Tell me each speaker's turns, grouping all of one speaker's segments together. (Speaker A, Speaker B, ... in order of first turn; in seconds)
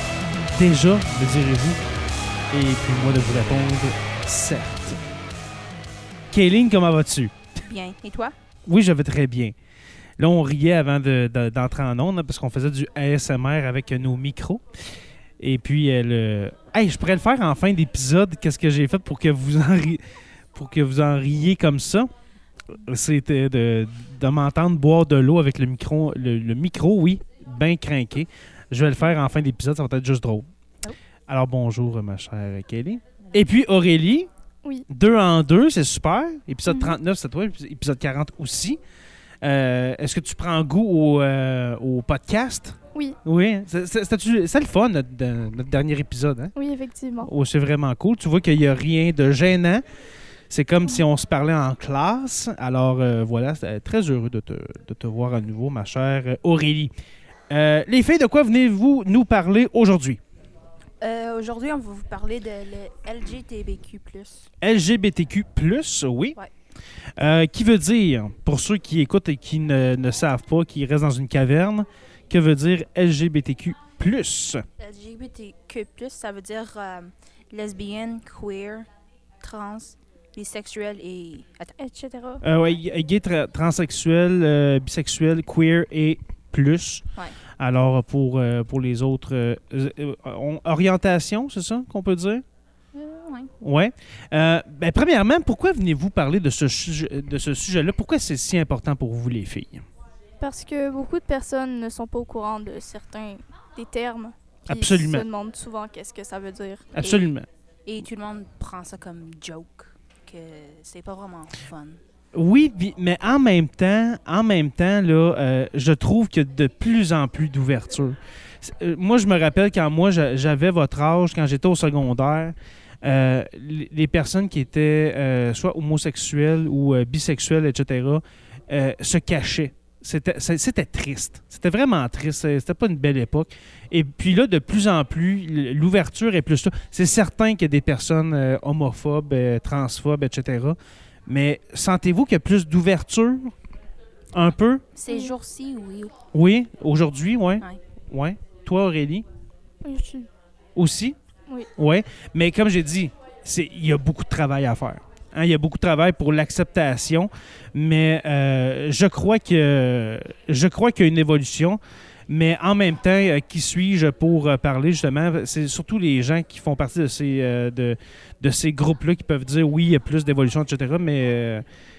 Speaker A: 0.4-1.9, 2.5-5.0, 6.3-7.3, 8.7-9.6, 10.2-14.7, 15.4-22.1, 22.7-30.5, 31.3-34.3, 34.9-38.8, 39.4-46.5, 47.2-49.8, 50.5-56.9, 57.5-60.2, 64.6-66.4, 67.2-74.7, 82.4-87.0, 87.6-92.4, 93.6-99.8, 104.7-105.2, 106.9-107.5, 112.3-143.5, 144.3-144.8, 146.3-149.2, 150.8-151.2, 151.8-171.6
Speaker B: 7.6-8.3, 61.0-64.5, 74.8-78.9, 79.4-81.7, 92.9-93.5, 107.0-107.3, 107.8-112.0, 144.9-146.1
Speaker C: 36.7-37.0, 46.5-47.3, 81.8-82.5, 100.4-106.9, 149.8-150.3